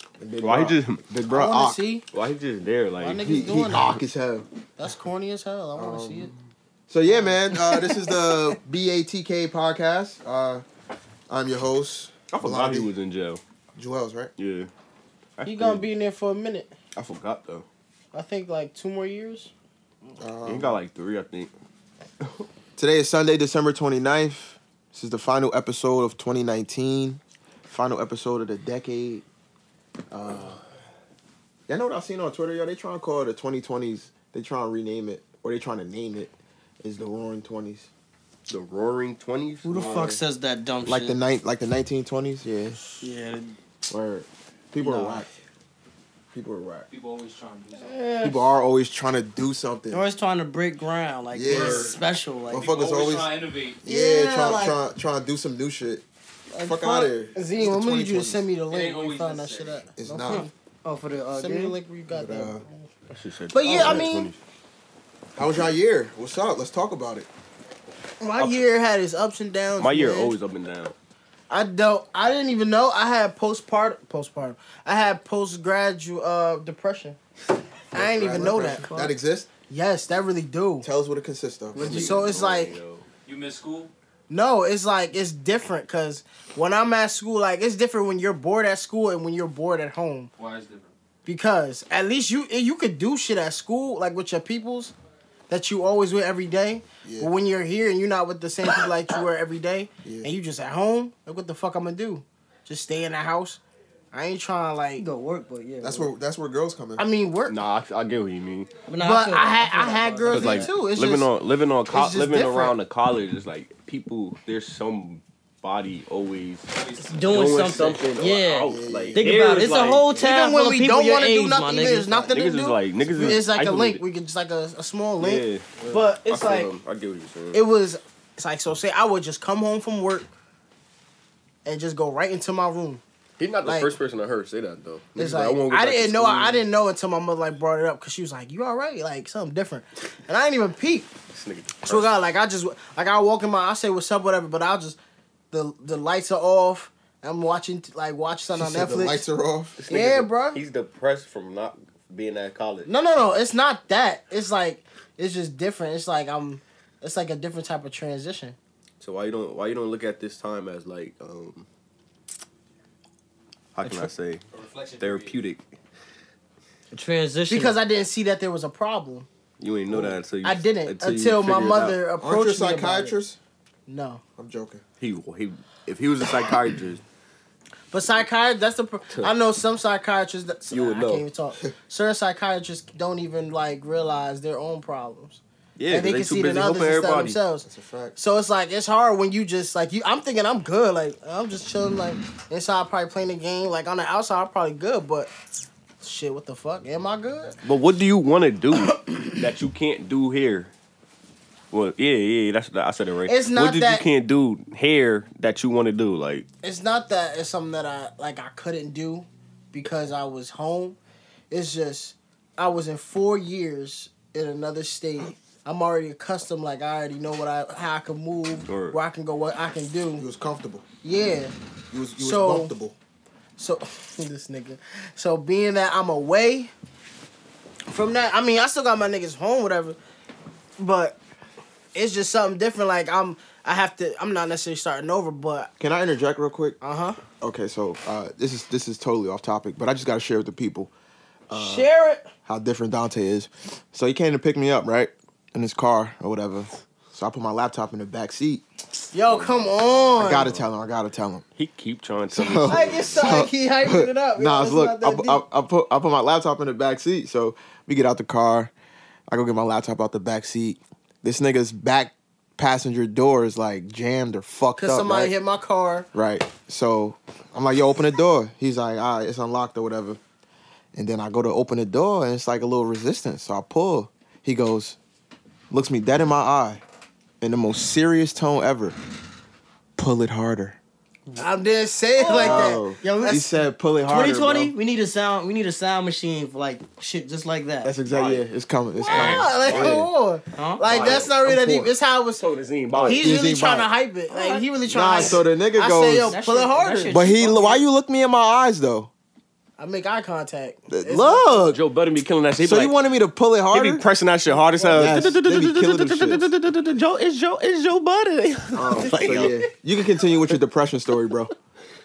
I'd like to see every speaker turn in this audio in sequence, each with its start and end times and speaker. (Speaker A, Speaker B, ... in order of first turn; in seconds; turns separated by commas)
Speaker A: 0.2-1.8, Speaker B: 0.4-1.0, Speaker C: 1.3-2.0, Speaker B: 2.1-3.4, Speaker C: 3.0-4.0, Speaker A: 3.2-4.5, Speaker C: 4.8-6.3, Speaker A: 5.7-6.3, Speaker A: 6.9-10.6, Speaker C: 7.1-7.3, Speaker D: 7.7-8.0, Speaker A: 11.3-12.9, Speaker B: 12.3-13.4, Speaker A: 13.7-14.3, Speaker B: 14.4-14.7, Speaker B: 15.4-15.8, Speaker C: 15.4-16.7, Speaker B: 16.9-17.6, Speaker C: 18.1-19.5, Speaker A: 20.2-20.8, Speaker B: 20.4-21.5, Speaker A: 22.8-29.2, Speaker A: 30.1-30.6, Speaker A: 31.7-37.9, Speaker B: 38.5-40.2, Speaker D: 39.6-41.2, Speaker A: 39.8-40.1, Speaker A: 40.8-42.8, Speaker D: 43.0-43.6, Speaker A: 43.9-45.3, Speaker D: 44.8-45.2, Speaker A: 46.3-46.9, Speaker E: 46.9-48.1, Speaker C: 47.9-48.3, Speaker A: 48.2-50.0, Speaker D: 49.9-52.7, Speaker A: 51.3-56.0, Speaker E: 51.5-51.9, Speaker E: 52.5-53.8, Speaker C: 53.9-54.8, Speaker D: 54.1-54.8, Speaker C: 56.5-60.5, Speaker A: 56.6-58.5, Speaker E: 58.7-59.9, Speaker A: 60.0-60.4, Speaker D: 60.3-61.7, Speaker C: 61.3-62.9, Speaker A: 62.1-62.6, Speaker B: 63.1-64.4, Speaker C: 63.5-64.3, Speaker A: 63.7-64.0, Speaker A: 65.4-67.3, Speaker C: 68.2-70.3, Speaker B: 69.8-70.9, Speaker C: 71.5-77.2, Speaker C: 77.9-78.9, Speaker A: 77.9-79.5, Speaker D: 78.4-79.1, Speaker C: 79.7-80.9, Speaker A: 80.8-82.1, Speaker C: 81.8-82.8, Speaker D: 81.8-82.2, Speaker B: 81.8-83.0, Speaker E: 83.2-83.9, Speaker C: 84.3-90.3, Speaker E: 90.4-90.9, Speaker C: 91.2-94.9, Speaker C: 95.5-103.6, Speaker A: 97.0-97.3, Speaker A: 100.0-100.3, Speaker C: 104.1-105.0, Speaker D: 105.0-106.1, Speaker A: 105.8-107.0, Speaker C: 107.0-107.6, Speaker B: 107.5-108.7, Speaker D: 108.9-110.7, Speaker C: 109.0-111.3, Speaker B: 110.3-116.7, Speaker C: 111.9-112.7, Speaker E: 116.7-117.7, Speaker D: 117.0-122.1, Speaker B: 117.3-120.2, Speaker A: 118.7-119.3, Speaker C: 120.2-126.7, Speaker B: 122.2-124.0, Speaker B: 125.2-127.6, Speaker C: 127.5-130.3, Speaker C: 131.6-133.0, Speaker B: 133.4-136.6, Speaker C: 133.6-133.9, Speaker C: 135.2-141.1, Speaker B: 141.3-142.1, Speaker C: 141.8-145.0, Speaker C: 145.5-149.2, Speaker A: 148.5-149.8, Speaker B: 149.8-152.9, Speaker C: 149.9-150.6, Speaker C: 152.8-158.6, Speaker B: 159.0-161.7, Speaker B: 163.7-164.4, Speaker E: 164.5-165.4, Speaker B: 165.0-165.6, Speaker D: 166.9-167.8, Speaker C: 167.5-169.3, Speaker B: 169.6-172.0, Speaker C: 170.4-173.1, Speaker A: 172.2-173.4, Speaker C: 173.9-174.2, Speaker A: 174.4-174.8, Speaker B: 175.0-177.0, Speaker C: 177.9-195.3, Speaker B: 180.7-181.2, Speaker B: 185.8-187.4, Speaker A: 187.6-188.2, Speaker C: 196.0-197.6, Speaker B: 197.6-200.7, Speaker C: 198.9-199.3, Speaker B: 201.7-206.4, Speaker C: 203.2-204.0, Speaker C: 206.6-211.0, Speaker C: 211.5-220.2, Speaker B: 218.7-219.0, Speaker A: 220.2-220.8, Speaker C: 221.0-221.5, Speaker A: 221.9-222.9, Speaker C: 222.2-222.7, Speaker C: 223.6-226.7, Speaker C: 227.9-230.0, Speaker C: 230.8-231.2, Speaker C: 231.9-235.7, Speaker A: 235.8-236.8, Speaker C: 236.8-237.2, Speaker A: 237.4-240.9, Speaker A: 241.5-241.9, Speaker C: 241.5-242.3, Speaker A: 242.4-248.6, Speaker C: 249.1-250.5, Speaker B: 249.3-250.6, Speaker A: 250.2-251.4, Speaker B: 251.6-253.5, Speaker A: 252.3-258.7, Speaker C: 252.7-255.4, Speaker A: 259.3-265.3, Speaker C: 264.8-266.1, Speaker A: 266.1-270.2, Speaker A: 270.9-275.0, Speaker A: 275.7-276.8, Speaker A: 277.4-278.9, Speaker A: 279.9-280.8, Speaker C: 281.4-283.4, Speaker D: 282.2-283.5, Speaker A: 282.3-284.7, Speaker D: 284.1-287.9, Speaker A: 287.8-290.1, Speaker B: 288.1-288.4, Speaker B: 289.0-290.0, Speaker C: 289.1-292.4, Speaker D: 290.5-290.9, Speaker B: 290.9-291.3, Speaker A: 290.9-291.9, Speaker B: 292.4-293.3, Speaker A: 292.9-293.9, Speaker C: 293.0-297.2, Speaker D: 294.4-294.6, Speaker A: 294.9-296.4, Speaker D: 296.2-297.8, Speaker A: 297.1-299.1, Speaker C: 299.8-301.8, Speaker A: 300.9-301.8, Speaker B: 301.7-302.9, Speaker A: 302.6-304.0, Speaker B: 303.7-309.7, Speaker C: 304.6-305.2, Speaker A: 304.9-306.5, Speaker A: 308.7-311.5